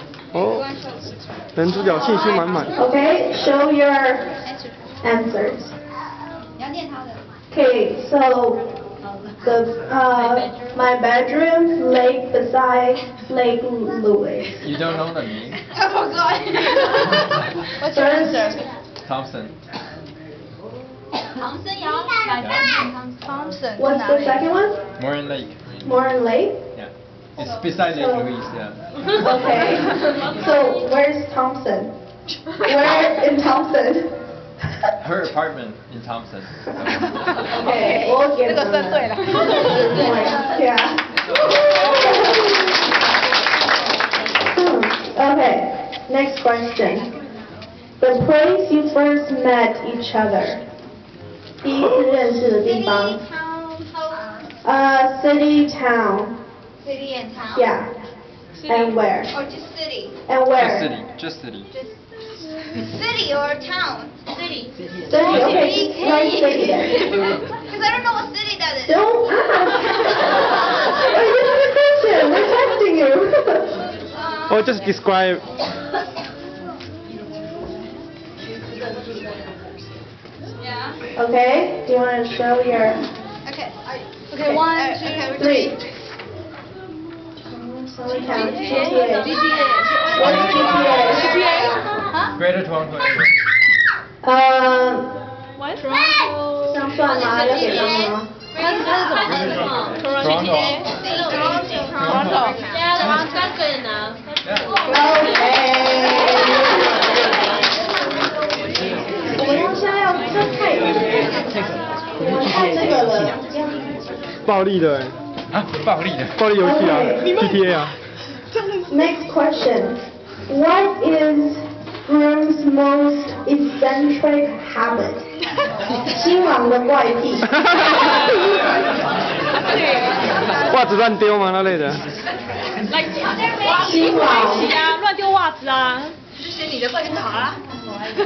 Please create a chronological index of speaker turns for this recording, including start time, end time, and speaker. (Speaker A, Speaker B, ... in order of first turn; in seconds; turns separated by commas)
Speaker A: 0.3-0.7, Speaker A: 1.5-2.7, Speaker B: 1.9-2.7, Speaker C: 2.7-4.3, Speaker C: 5.0-5.7, Speaker B: 6.6-7.2, Speaker C: 7.5-8.6, Speaker C: 9.4-14.7, Speaker D: 14.6-15.6, Speaker B: 15.7-17.4, Speaker E: 17.8-18.6, Speaker C: 17.8-18.6, Speaker D: 19.0-19.5, Speaker B: 21.4-23.4, Speaker D: 22.3-22.8, Speaker E: 23.4-24.4, Speaker C: 23.8-24.8, Speaker D: 25.0-25.9, Speaker C: 25.8-26.6, Speaker D: 26.7-29.5, Speaker C: 27.8-28.3, Speaker C: 29.1-31.9, Speaker C: 32.5-34.1, Speaker D: 35.0-37.5, Speaker E: 37.1-40.0, Speaker C: 37.4-41.0, Speaker C: 41.6-42.4, Speaker C: 44.5-47.1, Speaker C: 48.0-50.6, Speaker C: 51.6-53.2, Speaker B: 52.6-54.4, Speaker C: 54.6-56.4, Speaker B: 56.8-57.7, Speaker C: 57.5-57.9, Speaker F: 58.6-59.0, Speaker C: 58.7-59.3, Speaker B: 59.3-60.1, Speaker C: 60.3-61.0, Speaker D: 60.5-61.7, Speaker B: 61.7-62.0, Speaker B: 62.7-69.1, Speaker C: 65.0-67.3, Speaker D: 65.2-65.7, Speaker C: 68.8-73.7, Speaker B: 74.2-74.4, Speaker A: 74.5-75.4, Speaker B: 80.6-80.9, Speaker C: 81.2-83.0, Speaker B: 83.5-85.8, Speaker E: 84.3-85.2, Speaker C: 84.4-84.7, Speaker C: 85.3-85.7, Speaker C: 87.4-89.5, Speaker B: 88.2-91.8, Speaker E: 88.6-92.3, Speaker C: 90.1-91.4, Speaker D: 90.2-91.4, Speaker D: 92.3-93.3, Speaker C: 94.2-95.1, Speaker B: 95.8-99.6, Speaker C: 96.6-98.3, Speaker E: 98.5-99.8, Speaker D: 99.3-100.9, Speaker F: 99.9-100.9, Speaker B: 100.3-103.0, Speaker E: 101.5-102.8, Speaker D: 101.9-103.3, Speaker D: 104.4-104.8, Speaker B: 104.7-105.6, Speaker C: 104.8-106.8, Speaker C: 109.3-111.2, Speaker C: 112.2-113.8, Speaker A: 114.5-115.2, Speaker D: 115.5-116.4, Speaker A: 116.3-117.9, Speaker C: 116.5-117.4, Speaker F: 117.2-117.7, Speaker F: 118.5-118.8, Speaker C: 118.9-125.3, Speaker C: 126.1-127.5, Speaker F: 129.6-130.1, Speaker A: 130.6-132.0, Speaker F: 132.9-133.2, Speaker B: 133.4-134.8, Speaker C: 133.7-134.7, Speaker F: 134.6-136.2, Speaker B: 136.4-137.6